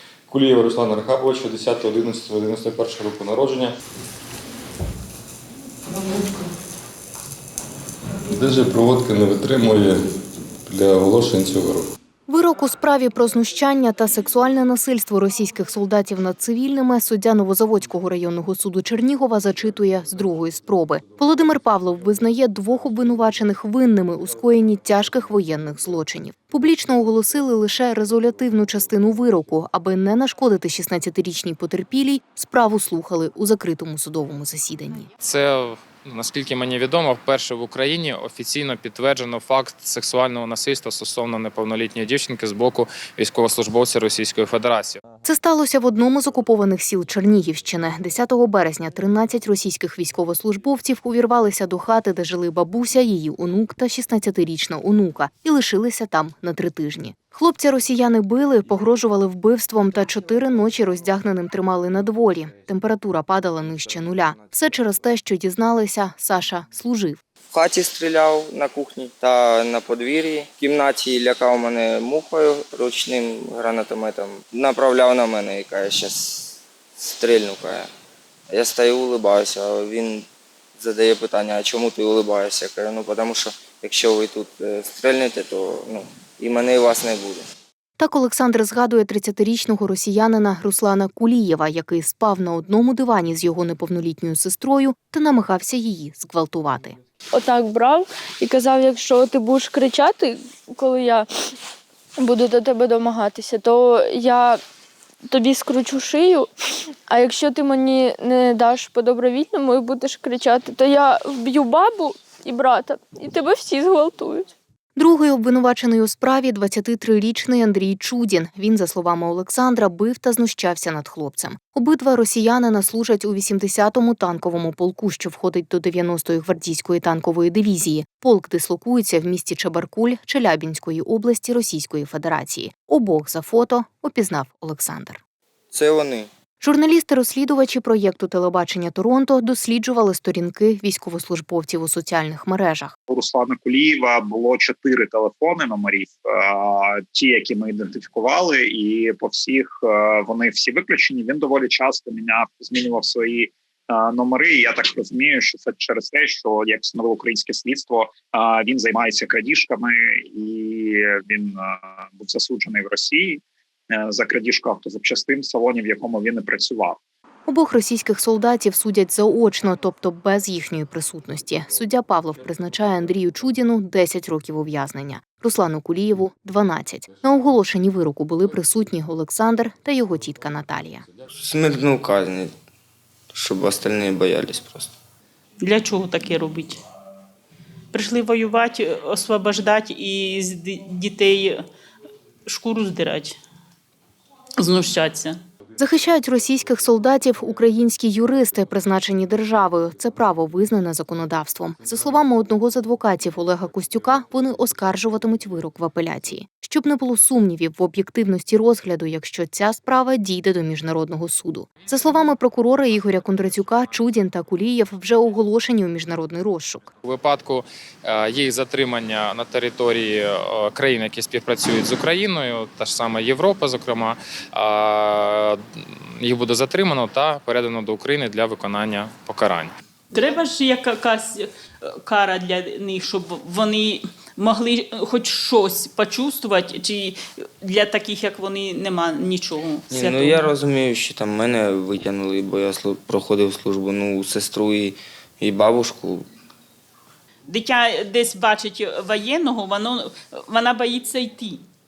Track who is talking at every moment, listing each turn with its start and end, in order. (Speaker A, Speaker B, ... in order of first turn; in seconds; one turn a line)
Speaker A: 0.3-3.7
Speaker A: 8.3-10.0
Speaker A: 10.7-11.9
Speaker B: 12.3-35.1
Speaker C: 35.2-45.0
Speaker B: 45.2-67.2
Speaker D: 67.5-77.9
Speaker D: 78.5-87.5
Speaker B: 88.0-97.0
Speaker E: 97.3-101.3
Speaker E: 102.2-104.6
Speaker E: 105.3-106.5
Speaker E: 107.1-114.5
Speaker B: 115.0-135.2
Speaker D: 135.7-136.3
Speaker B: 136.6-142.9
Speaker F: 143.1-167.0
Speaker B: 167.5-181.1
Speaker D: 181.3-182.5
Speaker D: 183.3-184.9
Speaker G: 185.6-186.8
Speaker G: 187.9-191.6
Speaker G: 192.5-193.4
Speaker G: 194.6-195.4
Speaker B: 195.8-216.9
Speaker C: 217.0-229.7
Speaker G: 230.1-231.5
Speaker G: 232.0-240.5
Speaker D: 239.9-246.3
Speaker G: 247.5-251.6